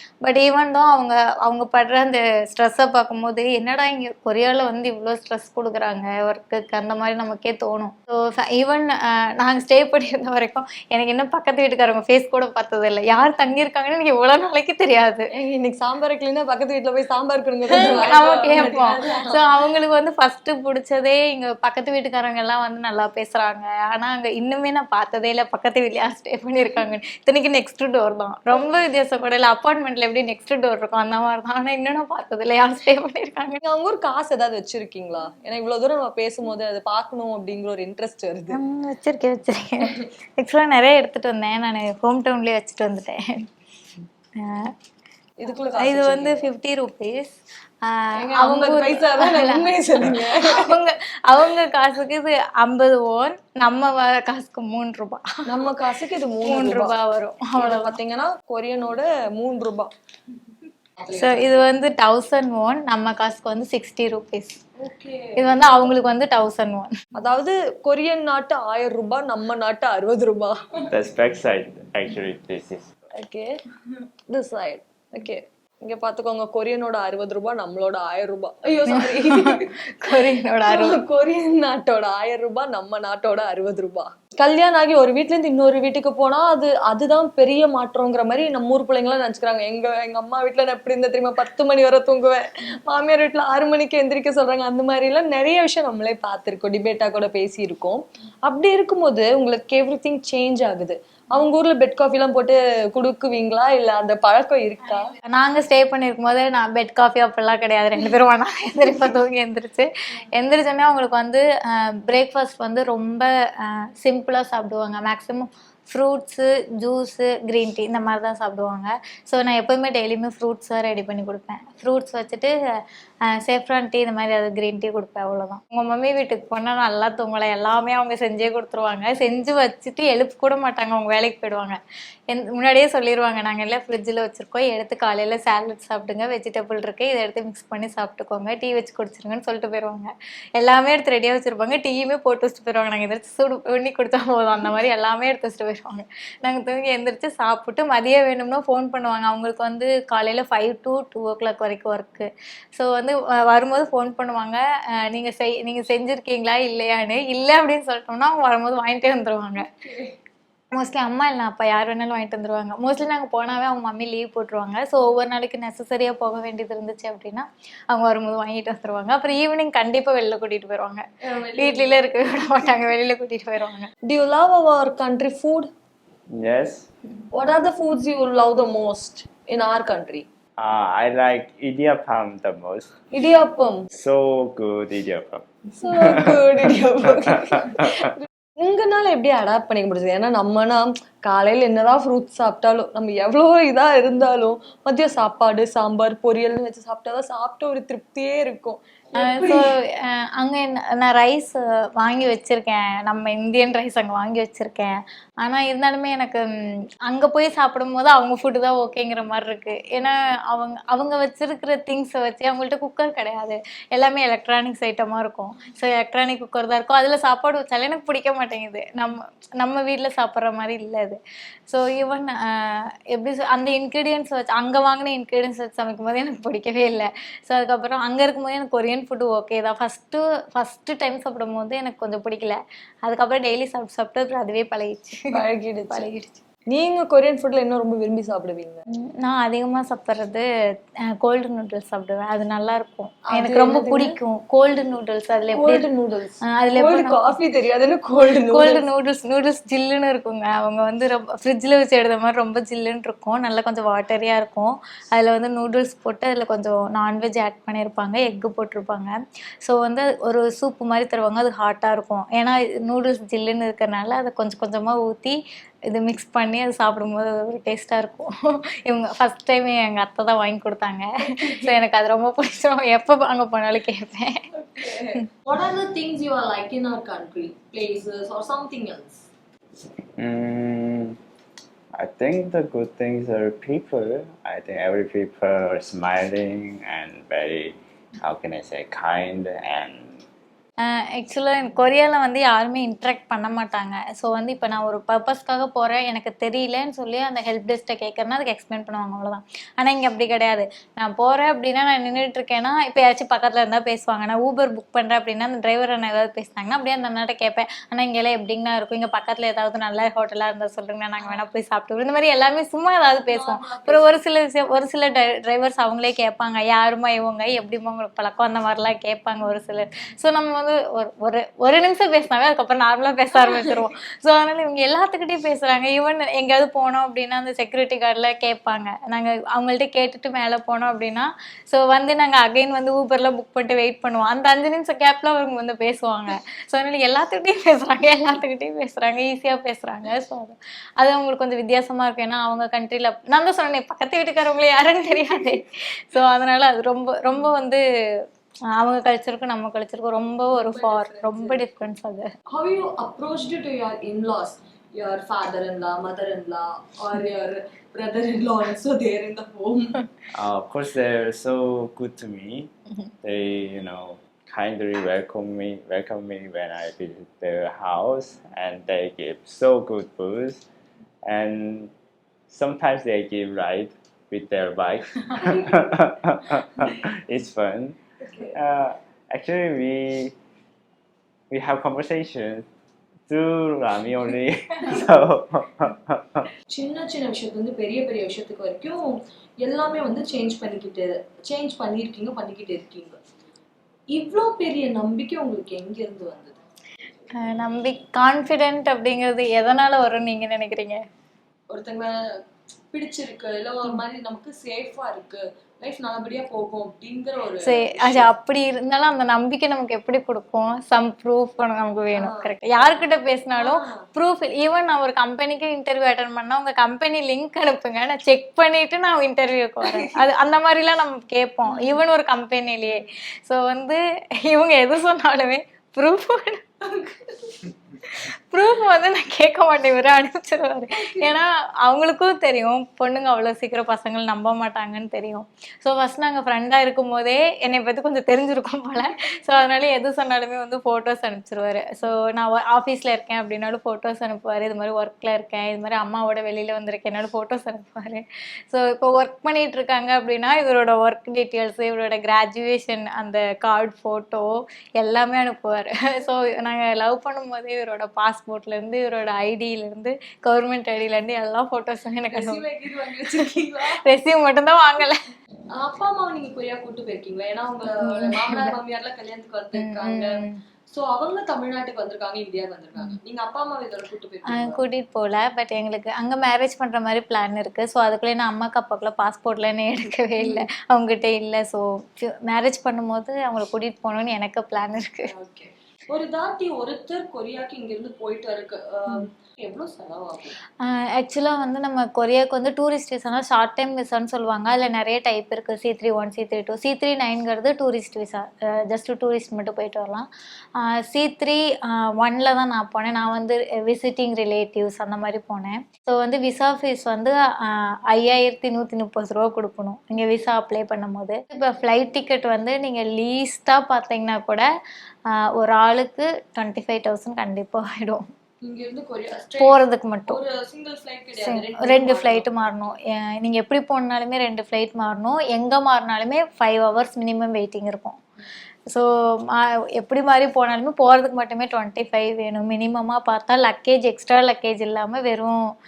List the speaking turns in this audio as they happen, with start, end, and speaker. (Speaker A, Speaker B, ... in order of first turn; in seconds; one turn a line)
Speaker A: 0.2-15.3
Speaker B: 15.3-19.4
Speaker A: 17.8-33.6
Speaker B: 33.7-38.6
Speaker A: 38.5-43.2
Speaker A: 44.4-44.7
Speaker B: 45.4-46.4
Speaker A: 45.8-55.3
Speaker B: 48.2-50.7
Speaker B: 55.5-56.9
Speaker A: 56.4-58.0
Speaker B: 57.6-59.9
Speaker B: 61.0-61.6
Speaker A: 61.1-64.6
Speaker B: 64.8-65.7
Speaker A: 65.4-66.9
Speaker B: 67.2-70.8
Speaker C: 70.9-72.9
Speaker B: 73.2-73.5
Speaker B: 74.3-79.7
Speaker A: 78.9-81.0
Speaker B: 80.7-105.1
Speaker A: 105.3-122.5
Speaker A: 123.3-131.8
Speaker A: 132.3-159.7
Speaker B: 159.6-160.2
Speaker A: 160.7-171.0
Speaker B: 171.3-172.0
Speaker A: 171.6-173.9
Speaker B: 174.1-175.7
Speaker C: 176.4-176.9
Speaker B: 177.3-180.2
Speaker C: 180.6-182.9
Speaker B: 183.1-183.9
Speaker C: 183.9-185.4
Speaker B: 185.8-199.6
Speaker A: 199.2-206.4
Speaker A: 207.1-235.2
Speaker B: 235.3-236.1
Speaker A: 235.9-236.4
Speaker B: 236.7-238.8
Speaker A: 239.2-240.4
Speaker A: 241.2-245.8
Speaker B: 243.3-244.1
Speaker B: 245.5-248.8
Speaker A: 246.6-247.2
Speaker A: 248.5-268.3
Speaker A: 268.8-274.4
Speaker B: 274.6-279.3
Speaker C: 280.2-281.2
Speaker C: 282.0-290.2
Speaker A: 290.9-347.8
Speaker B: 311.2-311.5
Speaker B: 313.3-314.2
Speaker A: 348.8-352.3
Speaker B: 350.5-351.8
Speaker B: 352.5-360.0
Speaker C: 360.4-362.7
Speaker C: 363.2-370.6
Speaker C: 371.3-371.9
Speaker C: 372.5-376.5
Speaker B: 375.4-375.8
Speaker C: 377.3-378.0
Speaker C: 378.5-380.3
Speaker C: 381.5-382.7
Speaker C: 383.3-386.2
Speaker B: 386.7-393.2
Speaker B: 394.1-396.6
Speaker A: 397.4-401.0
Speaker B: 401.7-402.1
Speaker B: 402.9-408.3
Speaker A: 407.6-426.6
Speaker B: 412.1-414.0
Speaker B: 421.7-422.0
Speaker B: 426.9-427.6
Speaker A: 428.1-454.5
Speaker B: 431.0-431.3
Speaker A: 455.0-462.6
Speaker B: 462.3-464.0
Speaker A: 464.1-465.2
Speaker B: 465.8-474.8
Speaker A: 468.0-468.8
Speaker A: 469.8-470.6
Speaker A: 474.5-485.3
Speaker B: 480.4-480.6
Speaker B: 485.3-490.6
Speaker A: 490.8-514.6
Speaker A: 515.5-518.2
Speaker B: 518.6-522.5
Speaker A: 519.6-520.4
Speaker A: 521.4-528.2
Speaker A: 528.9-535.6